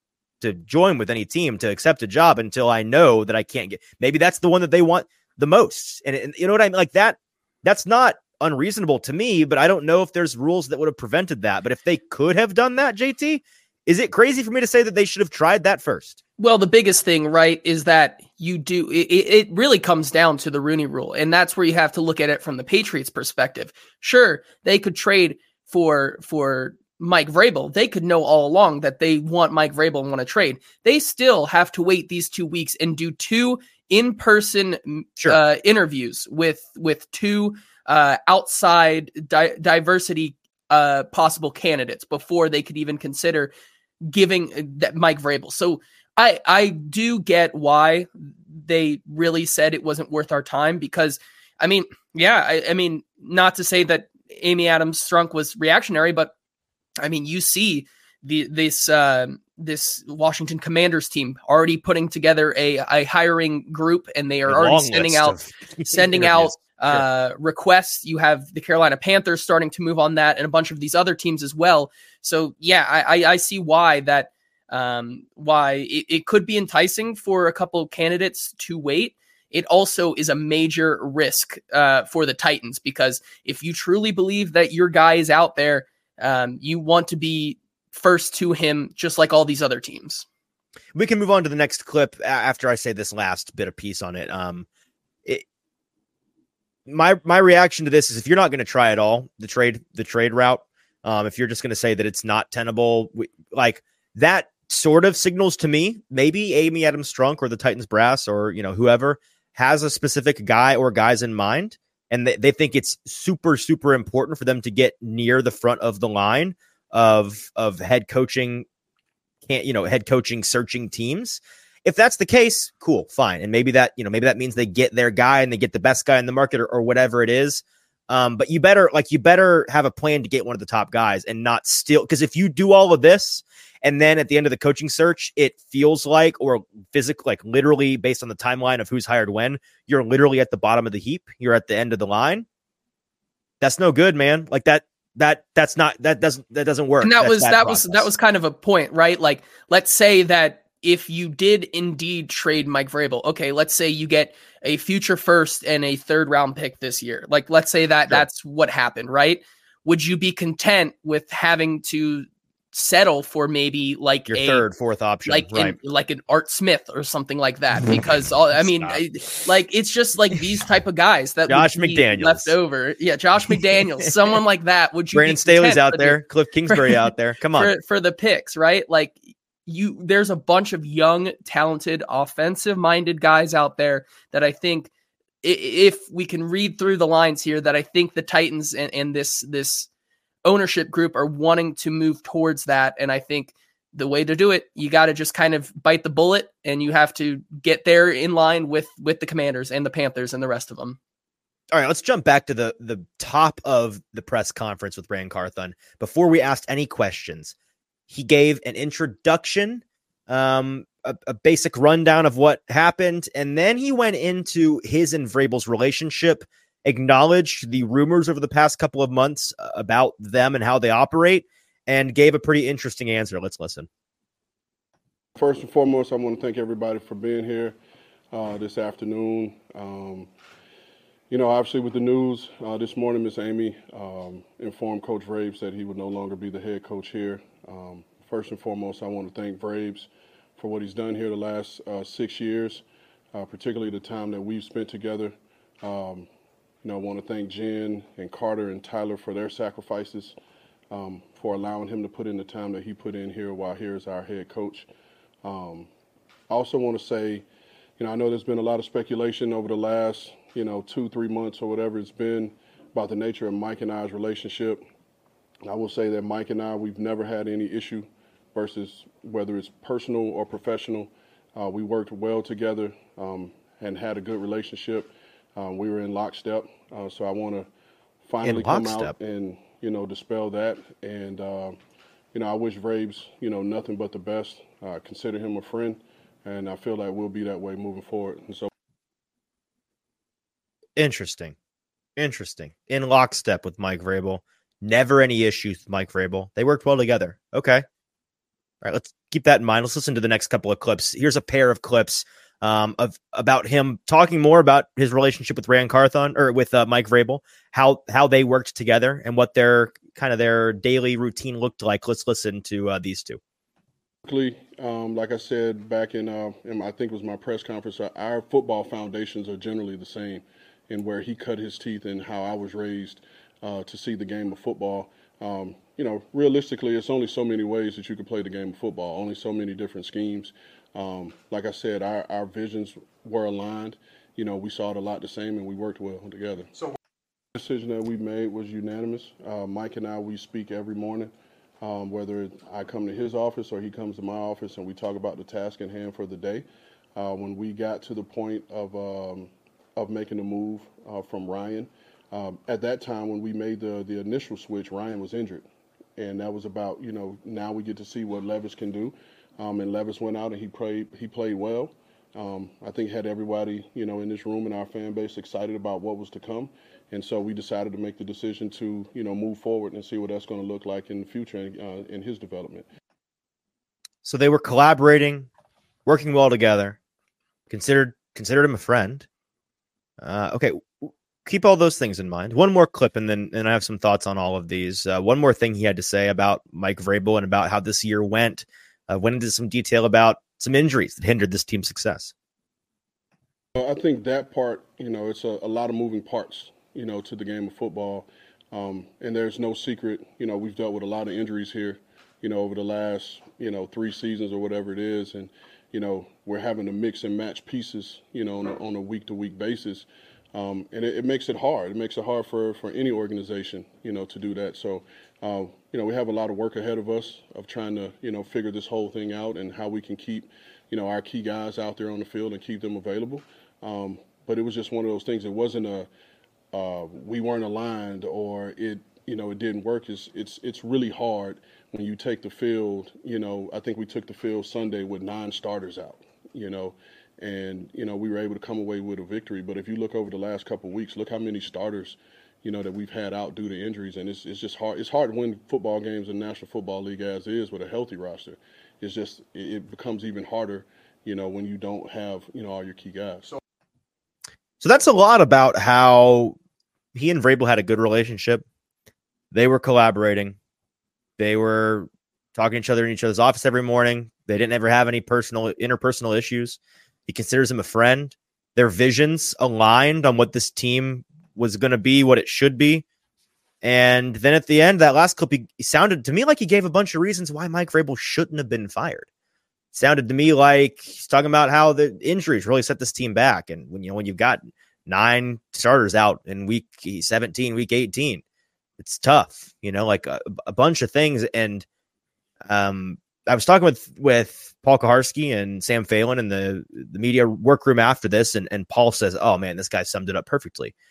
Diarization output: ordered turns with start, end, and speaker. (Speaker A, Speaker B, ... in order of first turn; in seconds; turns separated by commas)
Speaker A: 0.4-16.2, Speaker B: 16.4-43.5, Speaker B: 44.1-56.3, Speaker B: 57.0-65.4, Speaker A: 64.5-67.0, Speaker B: 65.9-90.2, Speaker A: 90.9-94.7, Speaker A: 96.9-118.7, Speaker A: 119.4-142.4, Speaker A: 143.6-148.1, Speaker B: 147.0-164.6, Speaker A: 164.3-165.8, Speaker B: 165.3-184.9, Speaker A: 168.5-169.0, Speaker A: 171.5-172.5, Speaker A: 175.1-177.7, Speaker B: 185.4-189.9, Speaker B: 190.4-201.0, Speaker A: 201.7-207.5, Speaker A: 208.1-223.9, Speaker C: 225.3-227.7, Speaker C: 228.3-230.3, Speaker C: 231.3-246.3, Speaker C: 246.8-250.3, Speaker C: 250.9-254.9, Speaker C: 255.4-255.9, Speaker C: 256.5-257.4, Speaker C: 258.0-264.8, Speaker C: 265.6-277.7, Speaker C: 278.2-281.8, Speaker A: 278.4-279.1, Speaker C: 282.3-288.7, Speaker A: 290.9-291.5, Speaker A: 292.2-297.8, Speaker A: 298.8-313.4, Speaker C: 314.2-336.7, Speaker C: 337.5-346.6, Speaker C: 347.1-355.6, Speaker C: 356.2-372.9, Speaker A: 374.2-375.5, Speaker A: 376.1-377.0, Speaker A: 377.7-379.3, Speaker A: 380.2-392.3, Speaker C: 393.7-426.1, Speaker C: 426.7-453.5, Speaker A: 454.8-456.6, Speaker A: 457.1-458.6, Speaker A: 459.5-460.6, Speaker A: 461.4-473.0, Speaker A: 473.8-479.3, Speaker A: 479.9-488.4, Speaker A: 489.0-491.9, Speaker A: 492.7-500.9